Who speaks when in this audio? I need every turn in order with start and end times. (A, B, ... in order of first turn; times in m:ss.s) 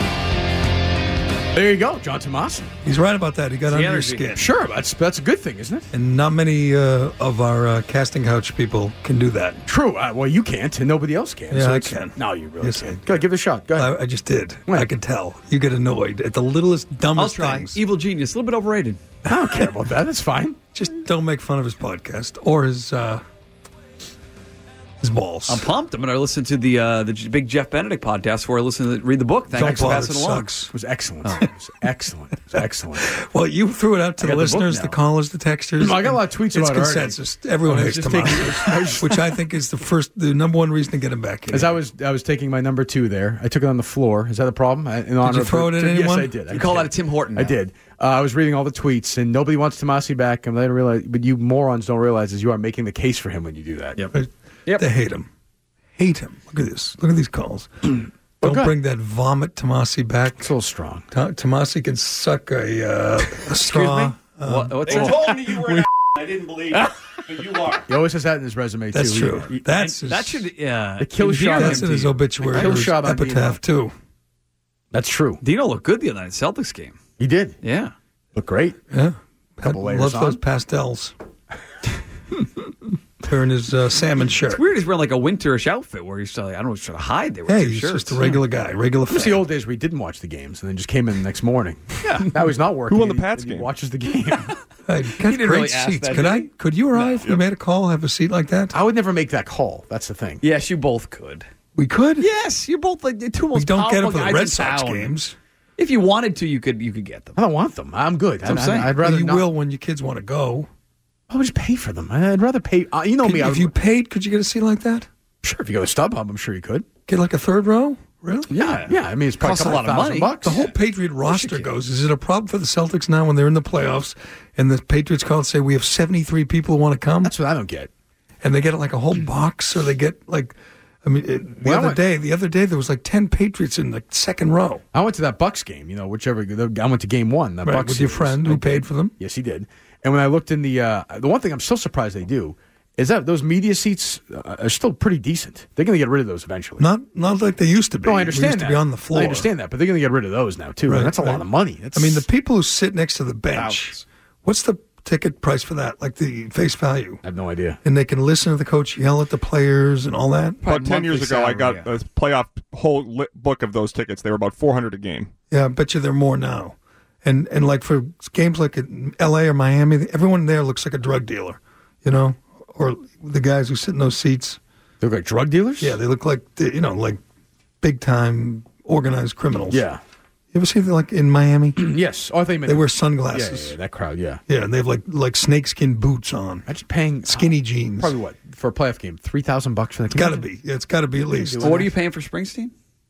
0:01.5-0:02.7 A
0:02.8-0:04.4 B
0:03.7-0:04.3 C
0:04.3-0:05.9 A
0:05.9-0:09.6 B
0:09.6-0:13.9 A
0:11.5-0:13.0 B
0:13.8-0:17.8 B
0:17.1-0:19.0 C
0:19.2-0:20.6 A
0:20.7-0:23.2 B
0:25.0-0:25.7 B
0:25.5-0:30.5 C
0:29.5-0:30.7 B
0:29.6-0:30.0 A
0:30.7-0:33.1 A
0:33.0-0:41.8 B
0:34.2-0:35.0 C
0:35.8-0:39.2 A
0:41.5-0:54.0 A
0:45.2-0:46.4 B
0:46.5-0:47.6 C
0:54.1-0:55.3 B
0:56.0-1:00.5 B
0:58.4-0:58.7 A
1:00.4-1:01.1 A
1:01.1-1:05.2 B
1:03.5-1:04.1 A
1:04.4-1:05.4 C
1:05.0-1:05.6 D
1:05.2-1:05.8 A
1:06.3-1:06.8 D
1:07.4-1:09.6 A
1:08.9-1:10.5 B
1:09.7-1:12.7 C
1:11.0-1:13.6 A
1:11.6-1:13.9 B
1:14.9-1:15.4 A
1:15.4-1:17.0 C
1:17.2-1:17.6 A
1:17.6-1:17.9 C
1:18.3-1:18.8 A
1:18.9-1:21.1 B
1:19.6-1:20.4 A
1:23.2-1:24.6 B
1:24.5-1:28.4 C
1:27.5-1:29.5 B
1:29.1-1:34.5 A
1:32.0-1:32.3 C
1:32.9-1:33.7 D
1:34.8-1:38.8 B
1:35.2-1:37.1 C
1:37.1-1:37.4 D
1:38.7-1:40.4 A
1:40.4-1:41.4 C
1:41.7-1:42.2 B
1:42.2-1:45.1 C
1:43.5-1:45.4 B
1:45.8-1:47.4 C
1:47.4-1:49.5 A
1:48.4-1:48.9 C
1:49.0-1:50.7 B
1:51.3-1:53.7 A
1:53.2-1:55.1 B
1:55.4-1:56.9 A
1:57.1-1:58.5 B
1:58.5-2:00.7 C
1:58.6-2:00.6 A
1:59.4-1:59.8 B
2:00.4-2:07.3 B
2:01.2-2:01.7 C
2:07.2-2:07.9 A
2:08.4-2:14.8 B
2:11.6-2:12.0 A
2:14.9-2:26.8 A
2:17.6-2:19.2 B
2:26.8-2:29.5 B
2:28.0-2:32.3 A
2:30.9-2:37.2 B
2:37.2-2:37.8 A
2:37.8-2:40.6 B
2:40.6-2:41.9 C
2:40.6-2:45.3 D
2:45.5-2:54.6 B
2:55.0-2:56.0 A
2:55.8-2:57.2 B
2:57.8-2:59.8 B
2:59.7-3:00.0 A
3:00.5-3:02.0 B
3:01.8-3:04.4 A
3:02.6-3:03.8 B
3:04.5-3:06.7 B
3:06.7-3:10.4 A
3:07.3-3:08.1 B
3:10.1-3:11.8 B
3:11.3-3:11.9 A
3:11.6-3:12.7 C